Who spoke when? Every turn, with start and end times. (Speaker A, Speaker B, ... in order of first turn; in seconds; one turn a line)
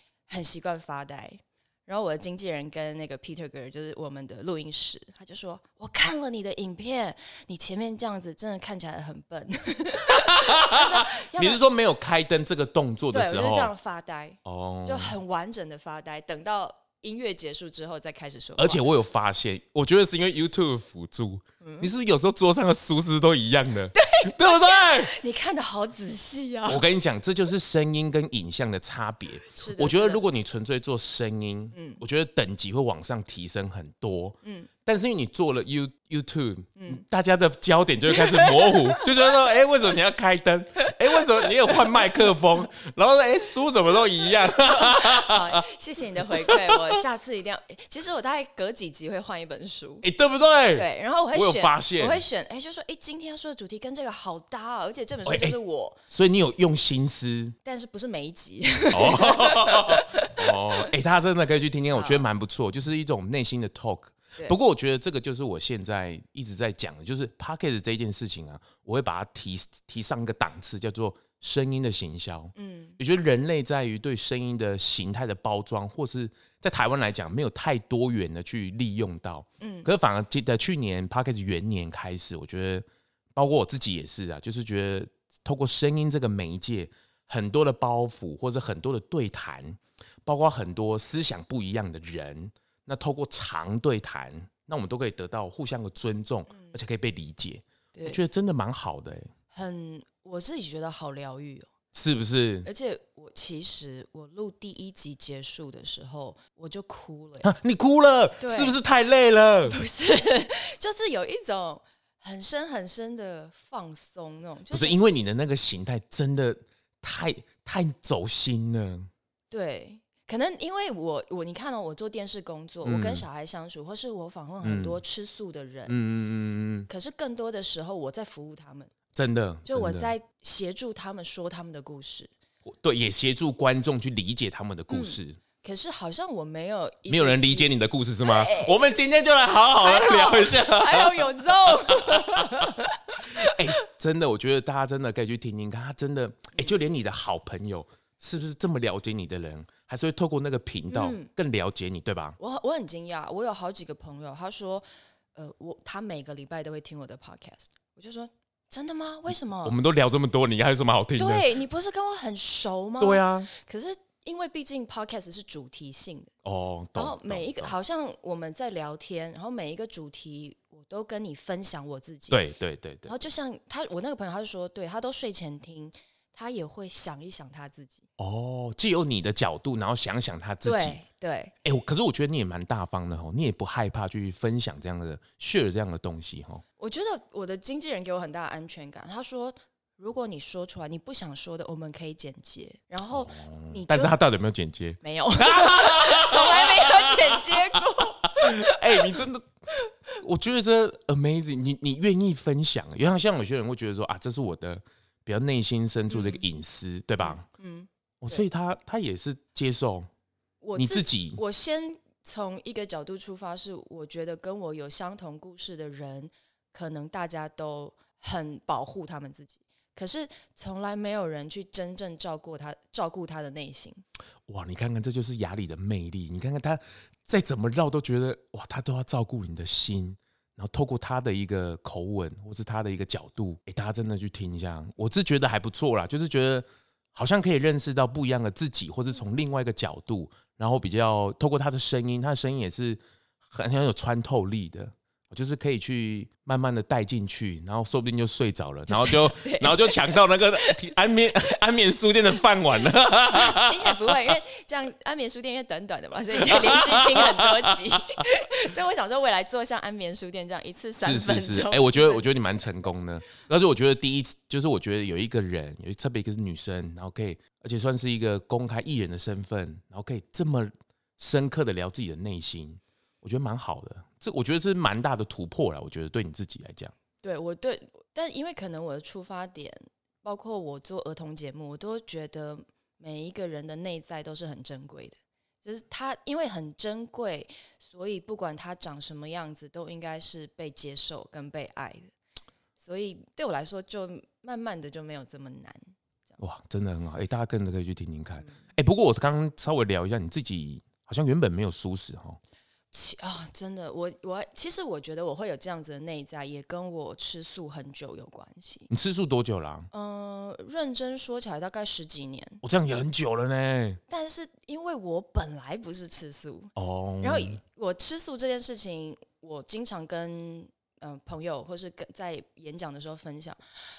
Speaker A: 0.3-11.6
Speaker B: 10.1-13.7
Speaker A: 13.1-18.8
Speaker B: 14.4-15.2
Speaker B: 18.6-25.2
Speaker A: 21.6-21.9
Speaker A: 24.0-26.8
Speaker B: 26.7-45.6
Speaker A: 29.4-30.3
Speaker A: 31.7-32.0
Speaker A: 34.4-34.7
Speaker A: 36.8-37.0
Speaker A: 38.1-39.3
Speaker A: 41.2-42.2
Speaker A: 44.7-50.1
Speaker B: 46.3-47.0
Speaker B: 50.0-52.2
Speaker A: 50.7-56.0
Speaker B: 55.2-55.6
Speaker B: 56.1-57.6
Speaker A: 57.6-60.9
Speaker B: 58.9-99.3
Speaker A: 62.0-62.3
Speaker A: 72.6-73.0
Speaker A: 79.6-79.9
Speaker A: 96.5-96.8
Speaker A: 97.9-98.2
Speaker A: 99.5-101.7
Speaker B: 101.9-102.7
Speaker A: 102.7-107.5
Speaker B: 107.4-109.8
Speaker A: 108.4-108.8
Speaker A: 109.7-115.0
Speaker B: 114.7-119.1
Speaker A: 119.5-126.0
Speaker B: 122.8-123.2
Speaker B: 124.6-125.0
Speaker B: 125.9-126.9
Speaker A: 126.9-128.9
Speaker B: 129.1-130.1
Speaker A: 129.7-132.3
Speaker B: 132.7-135.4
Speaker A: 134.9-137.7
Speaker B: 137.1-152.4
Speaker A: 138.2-138.8
Speaker A: 139.7-143.5
Speaker A: 150.9-151.3
Speaker A: 152.4-159.8
Speaker B: 159.6-161.6
Speaker A: 161.2-166.3
Speaker B: 163.0-163.5
Speaker B: 166.4-167.7
Speaker A: 166.9-172.4
Speaker B: 172.3-173.2
Speaker A: 173.1-178.0
Speaker B: 178.2-181.0
Speaker A: 180.6-181.6
Speaker B: 181.6-186.6
Speaker A: 186.8-194.2
Speaker B: 193.1-199.5
Speaker A: 195.0-199.2
Speaker B: 200.1-207.4
Speaker A: 206.1-206.4
Speaker A: 207.2-208.4
Speaker B: 208.2-210.1
Speaker A: 210.6-224.0
Speaker B: 210.8-211.4
Speaker B: 224.5-254.2
Speaker A: 248.9-250.8
Speaker A: 253.3-262.2
Speaker B: 256.4-258.3
Speaker B: 261.0-276.9
Speaker A: 277.2-292.1
Speaker A: 292.8-296.4
Speaker B: 296.4-302.4
Speaker A: 302.9-308.9
Speaker B: 308.9-309.9
Speaker A: 309.9-312.6
Speaker B: 312.6-314.0
Speaker A: 314.1-323.6
Speaker B: 316.8-317.6